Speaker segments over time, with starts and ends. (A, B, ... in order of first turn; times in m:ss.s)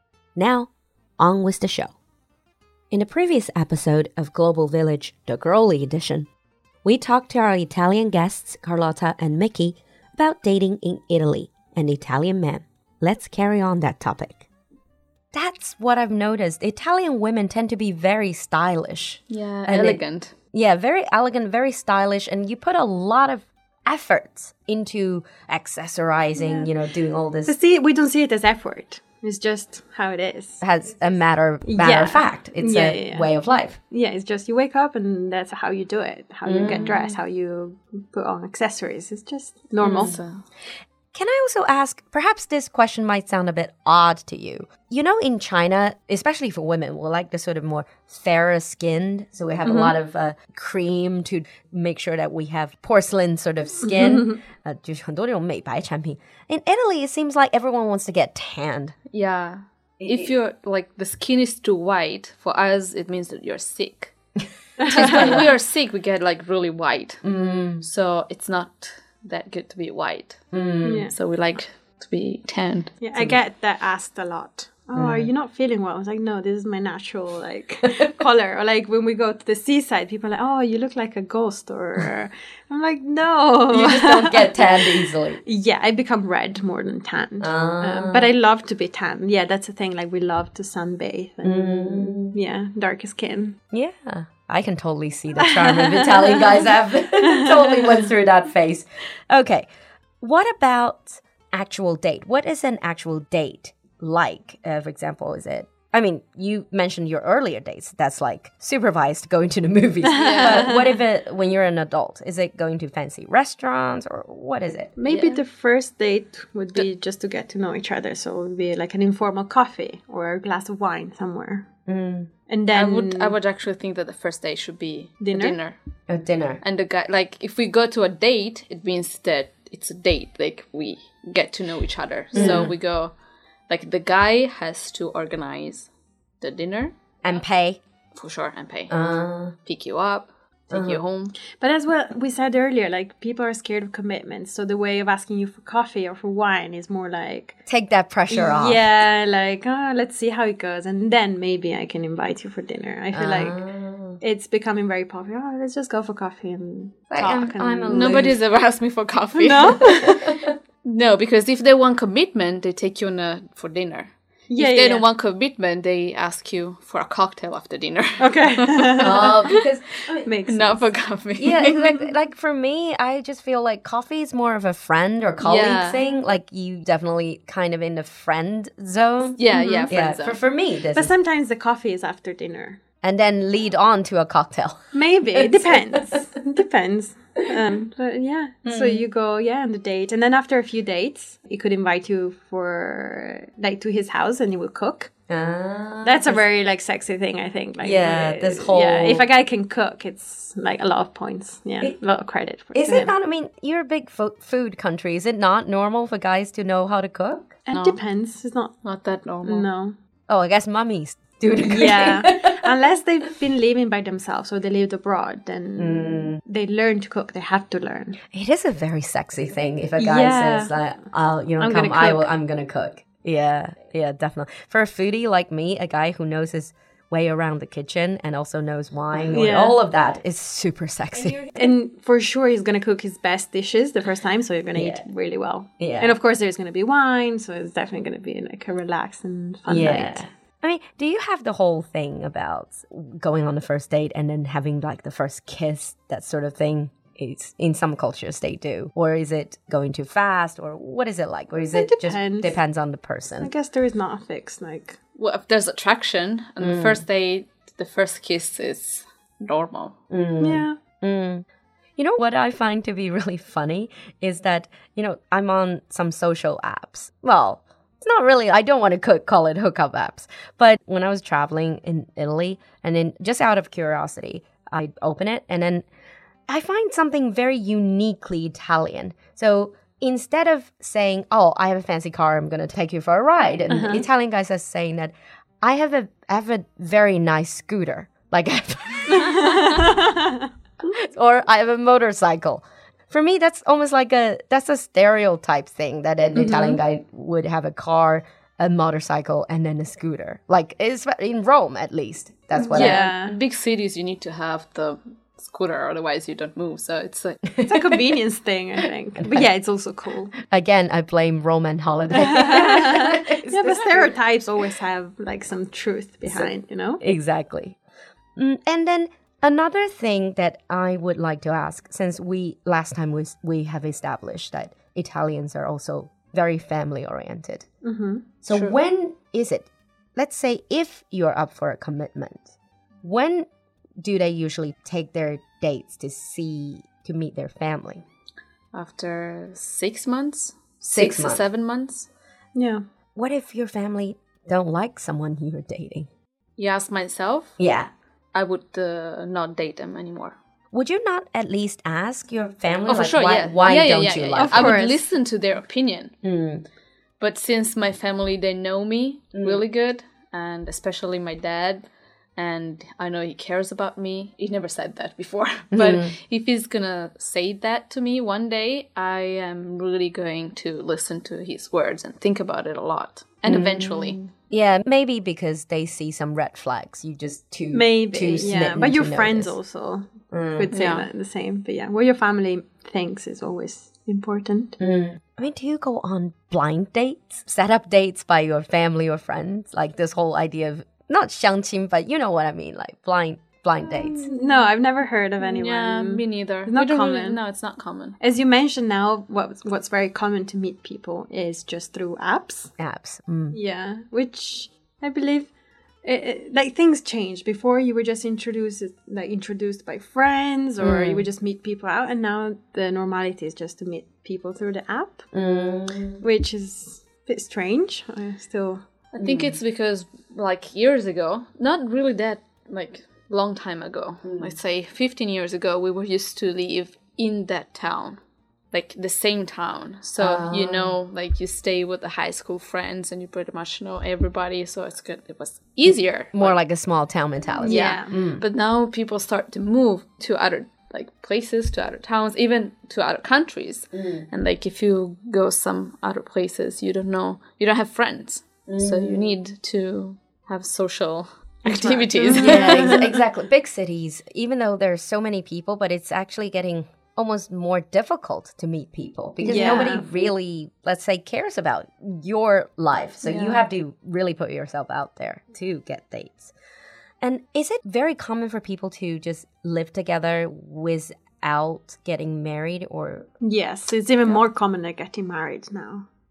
0:00.4-0:01.9 A
0:02.9-0:06.3 A
0:06.8-0:14.4 A
0:15.3-0:27.5 A
0:19.3-0:20.3 B
0:27.5-0:30.6 C
0:30.6-0:33.8 A
0:31.6-0:33.3 C
0:33.9-0:40.2 C
0:36.4-0:37.0 A
0:36.6-0:37.2 B
0:39.8-0:40.4 B
0:39.8-0:40.2 A
0:41.1-0:59.0 A
0:49.6-0:50.0 C
0:53.9-0:54.4 C
0:59.1-1:04.1 B
1:00.0-1:00.3 A
1:04.8-1:05.4 C
1:04.8-1:07.2 B
1:04.9-1:05.5 A
1:07.2-1:07.8 A
1:07.8-1:10.4 B
1:10.5-1:11.1 A
1:10.8-1:11.1 C
1:11.1-1:13.0 B
1:13.0-1:33.6 C
1:15.0-1:15.3 A
1:23.7-1:25.4 A
1:27.4-1:28.3 A
1:31.4-1:32.4 A
1:33.7-1:39.7 A
1:35.4-1:36.4 C
1:37.2-1:37.8 C
1:40.2-1:54.9 A
1:50.0-1:51.0 C
1:50.2-1:50.7 B
1:55.0-2:01.7 C
1:55.1-1:55.4 B
2:01.9-2:02.3 A
2:02.5-2:03.4 C
2:02.7-2:05.8 B
2:05.2-2:05.6 C
2:06.1-2:06.6 A
2:06.6-2:13.2 B
2:12.3-2:12.7 C
2:12.3-2:12.7 A
2:13.7-2:15.9 B
2:16.4-2:17.4 B
2:17.2-2:17.8 A
2:18.2-2:19.0 B
2:18.9-2:19.6 A
2:19.6-2:21.4 B
2:20.7-2:21.0 A
2:21.5-2:27.6 C
2:27.7-2:28.9 A
2:28.3-2:33.6 C
2:33.1-2:34.2 A
2:34.2-2:38.3 C
2:37.1-2:38.4 A
2:37.9-2:49.7 B
2:39.3-2:40.2 C
2:40.0-2:40.4 A
2:44.5-2:45.1 C
2:48.2-2:49.5 C
2:49.0-2:50.3 A
2:50.2-2:51.0 C
2:50.5-2:52.1 B
2:51.4-3:01.1 A
2:55.4-2:56.1 B
2:59.4-3:00.4 B
2:59.5-2:59.9 C
3:00.9-3:02.8 C
3:03.0-3:06.2 A
3:04.9-3:15.1 C
3:08.6-3:09.1 A
3:15.3-3:16.4 A
3:16.0-3:23.1 C
3:17.8-3:19.3 A
3:22.8-3:27.6 A
3:27.7-3:28.8 C
3:27.7-3:28.0 B
3:28.8-3:29.7 B
3:29.4-3:30.0 C
3:30.3-3:32.6 A
3:31.6-3:38.2 C
3:35.8-3:36.4 A
3:38.3-3:51.4 A
3:40.0-3:40.8 C
3:41.6-3:42.3 C
3:49.1-3:49.8 C
3:51.5-4:00.2 C
3:54.8-3:55.0 A
3:55.8-3:56.2 A
3:59.7-4:13.5 A
4:11.7-4:12.6 C
4:13.4-4:15.0 C
4:15.2-4:20.0 B
4:16.6-4:17.0 A
4:20.1-4:21.4 A
4:20.4-4:20.8 C
4:22.0-4:35.9 A
4:36.5-4:49.8 A
4:43.7-4:44.0 C
4:49.2-4:50.5 C
4:50.9-5:03.1 A
4:56.4-4:56.7 C
5:02.6-5:03.4 C
5:02.7-5:07.5 B
5:07.5-5:08.0 A
5:07.7-5:10.3 C
5:09.2-5:09.5 A
5:10.4-5:14.1 A
5:12.1-5:17.0 C
5:16.2-5:17.8 A
5:18.4-5:27.7 A
5:27.8-5:28.3 C
5:28.4-5:33.5 A
5:28.5-5:28.8 B
5:34.0-5:38.0 A
5:38.7-5:42.1 B
5:40.9-5:41.4 A
5:42.6-5:42.8 C
5:43.2-5:46.1 A
5:46.6-5:47.6 B
5:47.6-5:47.9 A
5:48.3-5:50.4 B
5:50.7-5:54.8 A
5:52.9-5:56.2 B
5:54.4-5:55.1 C
5:56.2-5:56.6 A
5:57.2-6:01.8 B
5:59.3-5:59.6 A
6:02.4-6:14.2 B
6:05.7-6:06.2 A
6:13.4-6:19.6 A
6:17.7-6:24.8 C
6:20.3-6:20.7 A
6:20.7-6:21.1 B
6:24.8-6:34.3 A
6:34.0-6:37.4 C
6:35.4-6:38.2 B
6:38.2-6:42.7 C
6:42.8-6:43.6 A
6:43.5-6:45.5 C
6:46.0-6:55.3 C
6:50.8-6:51.3 A
6:55.3-6:56.2 A
6:56.2-6:58.8 C
6:59.1-7:08.2 B
6:59.2-6:59.6 A
7:04.2-7:04.6 A
7:08.7-7:16.6 B
7:10.2-7:11.0 A
7:16.3-7:18.4 A
7:17.6-7:33.0 B
7:17.6-7:18.1 C
7:23.9-7:24.3 A
7:28.7-7:29.4 A
7:31.6-7:33.0 C
7:32.3-7:46.5 A
7:39.4-7:40.1 C
7:43.2-7:43.7 B
7:47.2-7:53.3 A
7:53.4-7:56.1 C